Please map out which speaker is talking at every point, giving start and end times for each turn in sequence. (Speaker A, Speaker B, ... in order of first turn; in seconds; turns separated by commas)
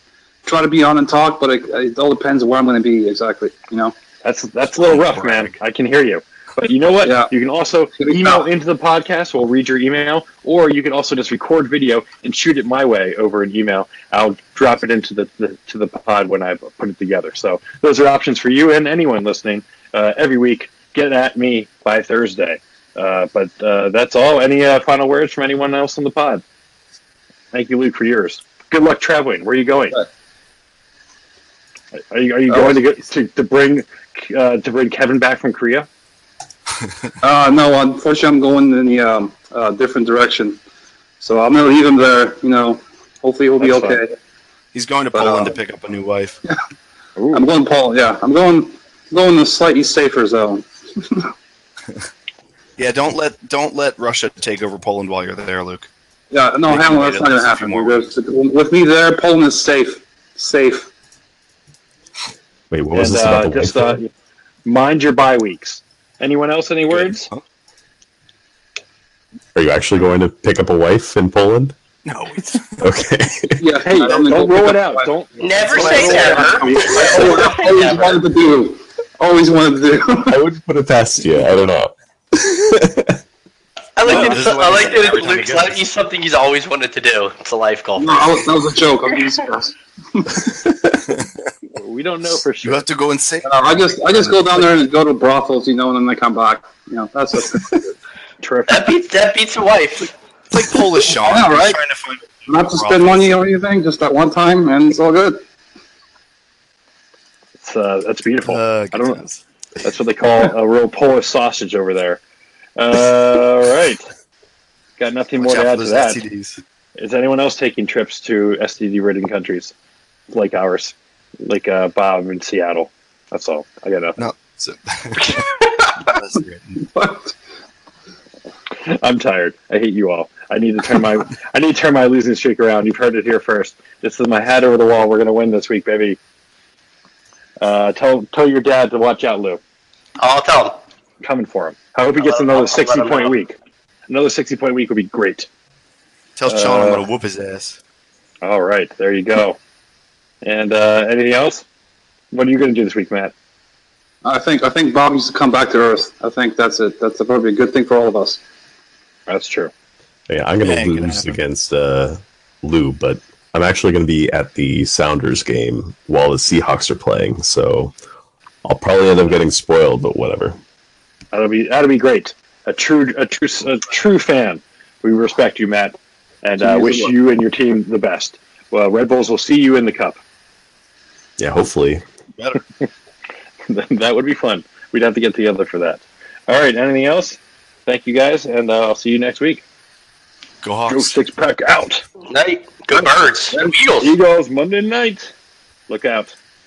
Speaker A: 0.5-4.0, Speaker B: 4.2-26.4, Speaker C: 4.8-5.5, Speaker A: 7.0-7.3, Speaker A: 8.0-8.4, Speaker B: 27.5-30.0, Speaker B: 32.1-35.9, Speaker A: 32.5-32.8, Speaker A: 37.2-40.6, Speaker A: 41.2-44.1, Speaker B: 43.6-44.0, Speaker C: 44.7-46.4, Speaker B: 47.2-47.5, Speaker A: 47.3-51.3, Speaker C: 52.8-55.9, Speaker A: 56.3-60.9, Speaker C: 56.7-58.1, Speaker D: 62.7-64.0, Speaker B: 62.9-64.1, Speaker B: 64.7-67.3, Speaker C: 66.9-67.4, Speaker D: 69.5-71.8, Speaker C: 72.0-72.9, Speaker D: 72.8-73.7, Speaker A: 73.6-75.1, Speaker B: 73.9-77.4, Speaker E: 75.4-78.2, Speaker A: 75.8-80.4, Speaker D: 80.3-83.2, Speaker E: 84.0-88.5, Speaker C: 84.0-85.8, Speaker A: 88.0-90.5, Speaker D: 90.4-91.2, Speaker B: 91.8-92.8, Speaker C: 92.6-94.8, Speaker A: 93.4-97.9, Speaker B: 98.4-98.9, Speaker E: 98.7-100.1, Speaker C: 100.5-103.4, Speaker A: 101.2-101.8, Speaker A: 102.5-105.4, Speaker B: 107.6-109.2, Speaker C: 108.5-109.4, Speaker B: 109.8-112.2, Speaker B: 112.8-114.1, Speaker B: 115.0-116.2, Speaker C: 115.4-116.6, Speaker B: 117.0-119.7, Speaker B: 120.3-124.2, Speaker C: 124.2-126.8, Speaker A: 125.7-126.2, Speaker A: 126.8-127.3, Speaker B: 128.8-136.2, Speaker B: 137.6-139.6, Speaker E: 140.2-140.8, Speaker B: 141.2-143.6, Speaker E: 142.2-143.3, Speaker B: 144.1-145.5, Speaker C: 146.4-147.8, Speaker B: 146.5-147.1, Speaker B: 148.4-149.6, Speaker B: 150.4-151.7, Speaker B: 152.3-153.3, Speaker A: 154.2-158.4, Speaker B: 159.3-159.7, Speaker D: 160.3-167.9, Speaker C: 160.6-161.4, Speaker D: 168.6-170.6, Speaker B: 171.3-180.2, Speaker A: 176.6-177.2, Speaker D: 181.4-182.0, Speaker B: 183.7-189.6, Speaker C: 190.6-191.2, Speaker B: 190.9-192.0, Speaker E: 192.3-194.1, Speaker B: 193.6-195.3, Speaker B: 195.9-196.3